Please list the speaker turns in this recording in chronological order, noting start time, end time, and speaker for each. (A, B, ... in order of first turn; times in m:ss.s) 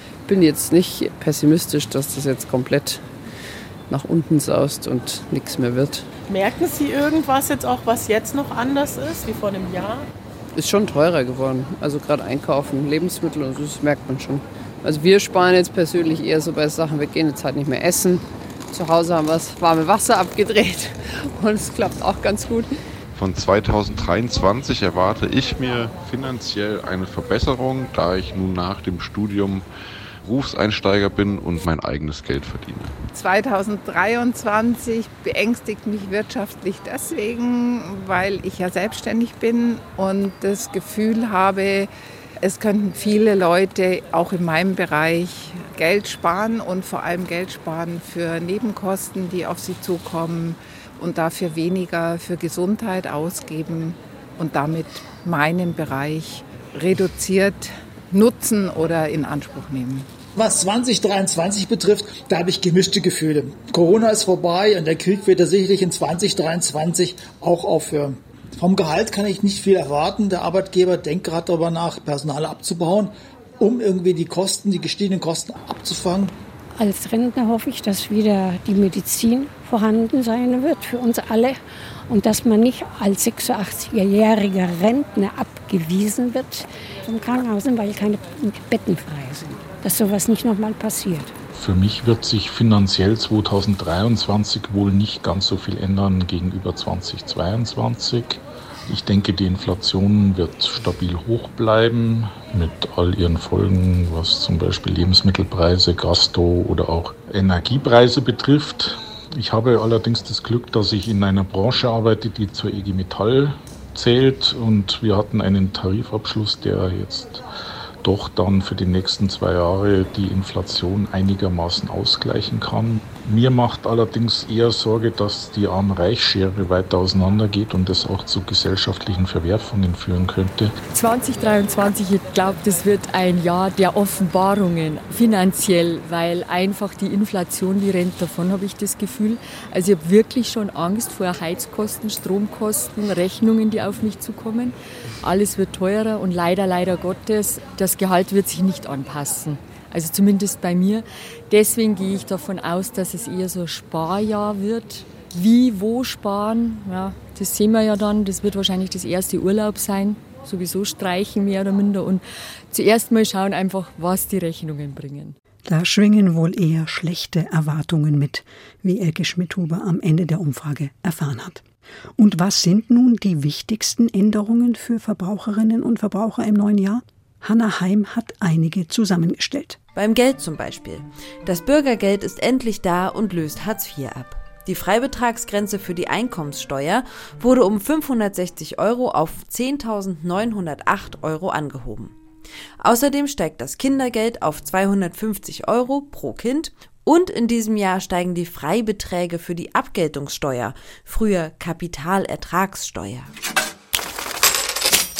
0:00.3-0:03.0 A
0:03.9-0:06.1 A
0:06.3-0:10.0 B
0:10.5-0:22.7 A
0:23.2-0:29.6 C
0:30.2-0:33.0 C
0:33.1-0:41.9 D
0:42.4-1:00.1 D
1:00.4-1:16.3 E
1:16.8-1:31.3 F
1:31.6-1:57.4 G
1:58.0-2:10.7 G
2:10.9-2:45.3 H
2:45.6-2:51.6 I
2:52.2-2:59.8 I
2:59.9-3:12.1 J
3:12.8-3:23.3 J